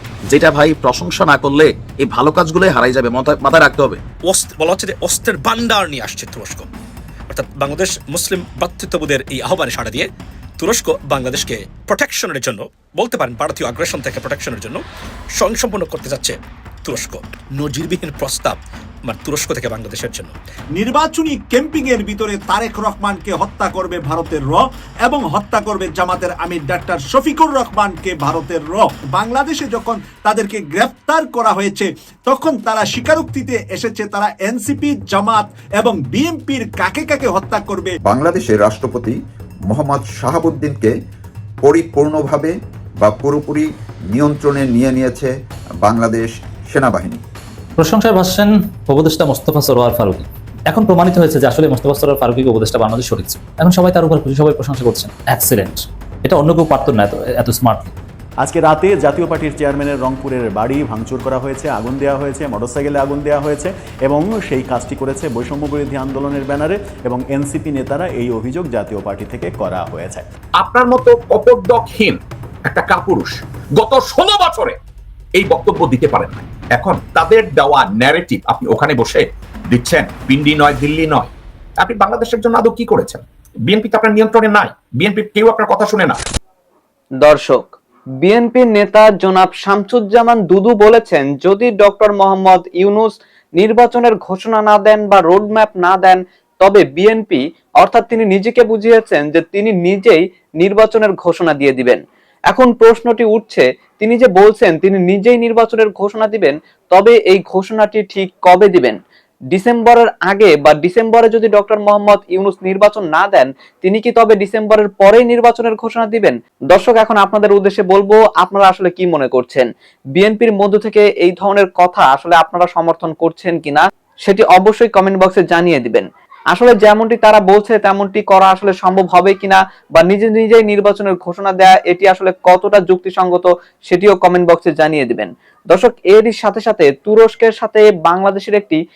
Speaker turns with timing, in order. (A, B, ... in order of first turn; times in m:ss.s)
0:00.3-0:04.0 A
0:04.2-0:06.7 B
0:07.3-0:10.1 B
0:10.6-0:14.8 B
0:15.4-0:20.3 B
0:20.8-0:38.0 C
0:38.0-0:41.0 D
0:41.6-0:47.2 D
0:47.8-0:57.9 E
0:58.5-1:10.2 F
1:10.6-1:14.8 G
1:15.3-1:26.2 G
1:27.2-1:27.7 H
1:28.2-1:49.0 H
1:49.5-2:18.8 H